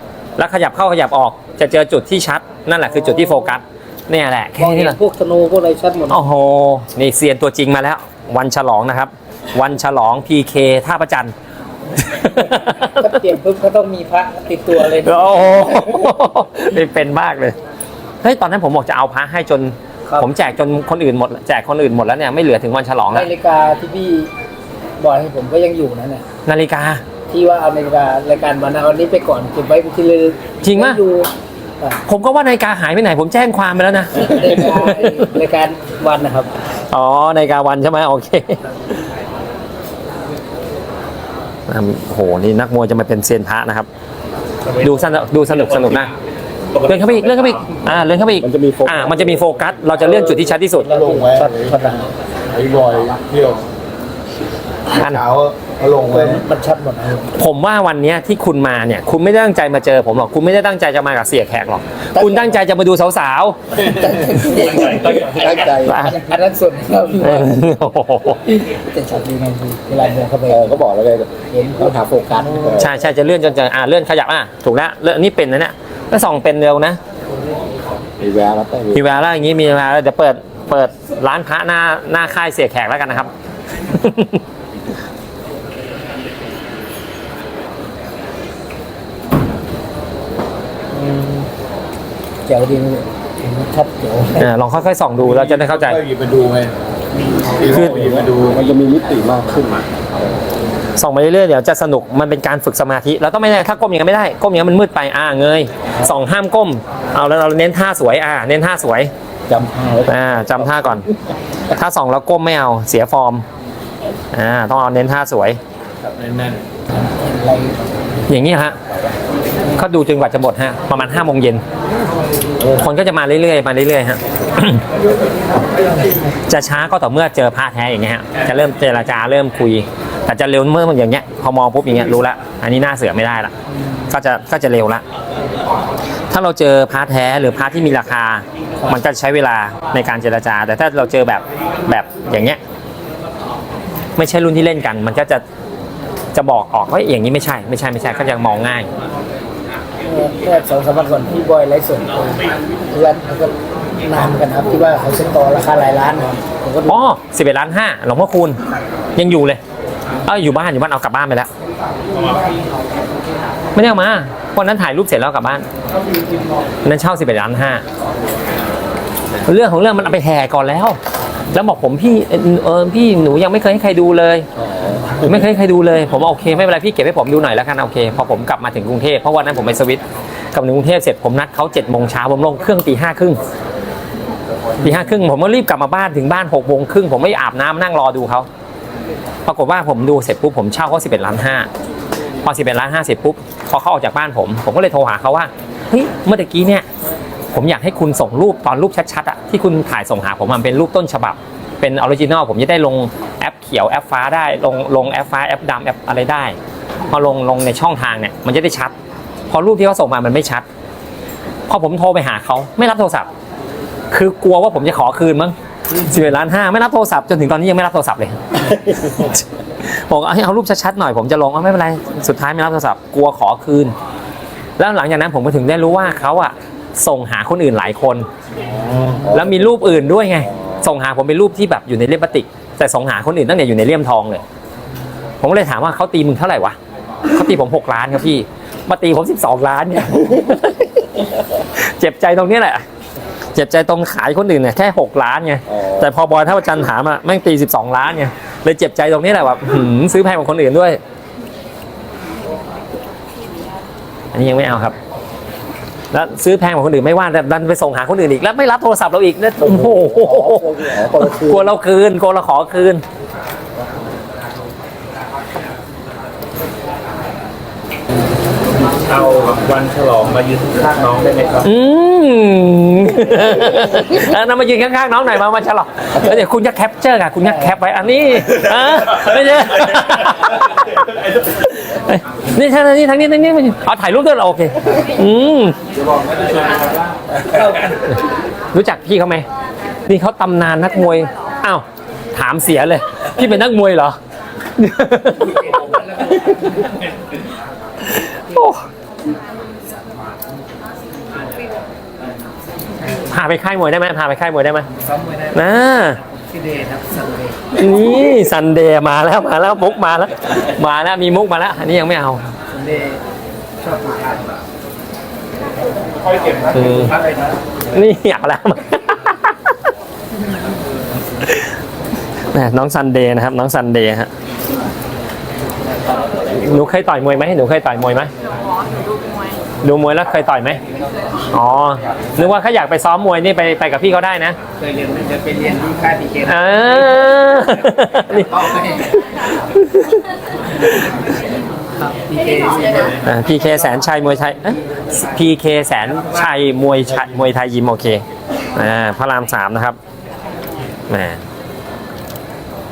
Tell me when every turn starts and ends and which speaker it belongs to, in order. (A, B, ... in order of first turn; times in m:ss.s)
0:00.4-0:05.0 A
0:02.9-0:03.5 B
0:04.6-0:06.2 B
0:06.1-0:11.3 A
0:12.0-0:13.1 A
0:12.6-0:16.1 B
0:14.9-0:17.6 A
0:18.2-0:23.3 A
0:23.1-0:24.3 B
0:25.0-0:26.2 B
0:26.5-0:27.0 A
0:27.3-0:32.0 B
0:30.6-0:31.0 A
0:32.1-0:35.3 A
0:34.2-0:36.5 B
0:36.9-0:38.6 A
0:41.7-0:43.9 A
0:44.6-0:46.1 C
0:44.8-0:46.1 A
0:46.7-0:47.7 C
0:46.9-0:50.9 A
0:48.4-0:50.0 D
0:50.0-0:52.0 E
0:50.9-0:52.0 B
0:52.5-0:53.7 E
0:54.9-0:56.4 E
0:55.0-0:55.2 A
0:56.1-0:57.3 B
0:57.4-1:03.8 A
1:02.2-1:02.5 B
1:03.8-1:07.6 B
1:04.5-1:05.8 C
1:04.6-1:06.2 D
1:05.8-1:06.2 A
1:07.2-1:08.4 A
1:08.5-1:10.7 B
1:10.5-1:13.0 D
1:11.5-1:12.8 B
1:12.8-1:17.0 A
1:18.2-1:19.0 D
1:18.9-1:23.3 A
1:23.9-1:24.4 A
1:32.5-1:34.5 B
1:34.4-1:36.0 A
1:35.2-1:36.7 E
1:37.4-1:38.6 E
1:37.6-1:40.0 D
1:41.0-1:49.1 A
1:49.5-1:51.2 D
1:50.1-1:51.1 A
1:51.7-1:53.4 A
1:54.3-1:55.6 A
1:56.0-1:56.6 E
1:57.2-1:57.8 B
1:58.3-1:58.8 A
1:59.8-2:01.6 A
2:02.8-2:04.8 A
2:06.5-2:13.5 A
2:14.1-2:15.0 A
2:16.3-2:22.6 A
2:24.2-2:25.4 A
2:26.3-2:28.9 A
2:30.0-2:37.0 B
2:36.9-2:38.6 A
2:39.2-2:39.6 A
2:40.3-2:41.5 A
2:42.1-2:42.4 C
2:43.8-2:45.7 A
2:46.8-2:47.8 A
2:49.4-2:51.0 A
2:51.5-2:54.5 A
2:54.6-2:55.2 D
2:55.2-3:00.0 A
3:00.5-3:03.4 A
3:04.8-3:08.5 A
3:09.5-3:11.7 A
3:12.4-3:16.9 A
3:17.5-3:26.6 A
3:27.1-3:28.9 A
3:29.5-3:30.6 A
3:31.7-3:33.3 A
3:34.1-3:43.9 A
3:44.8-3:48.3 A
3:48.7-3:50.9 D
3:49.3-3:54.4 A
3:55.4-4:01.0 A
4:01.8-4:02.8 A
4:03.6-4:11.0 A
4:05.7-4:06.1 D
4:14.3-4:15.0 A
4:16.1-4:23.0 A
4:19.6-4:21.8 D
4:29.1-4:31.7 C
4:31.6-4:40.9 A
4:37.4-4:37.7 B
4:41.6-4:45.8 A
4:47.4-4:48.0 B
4:48.7-4:49.5 A
4:50.1-4:54.2 A
4:54.8-4:56.0 A
4:58.1-4:58.8 A
5:03.3-5:04.9 A
5:05.0-5:05.6 B
5:05.5-5:06.2 A
5:06.2-5:07.6 B
5:07.8-5:12.4 A
5:12.7-5:13.2 B
5:13.8-5:14.6 B
5:16.2-5:17.1 C
5:16.7-5:17.1 A
5:16.7-5:17.6 B
5:17.9-5:19.8 A
5:22.5-5:24.3 A
5:26.5-5:28.3 A
5:29.8-5:30.8 A
5:31.5-5:34.6 A
5:34.8-5:37.2 B
5:36.5-5:40.2 A
5:38.5-5:39.1 B
5:42.0-5:43.2 B
5:43.2-5:48.2 A
5:47.0-5:47.5 E
5:48.8-5:50.0 A
5:51.1-5:51.4 A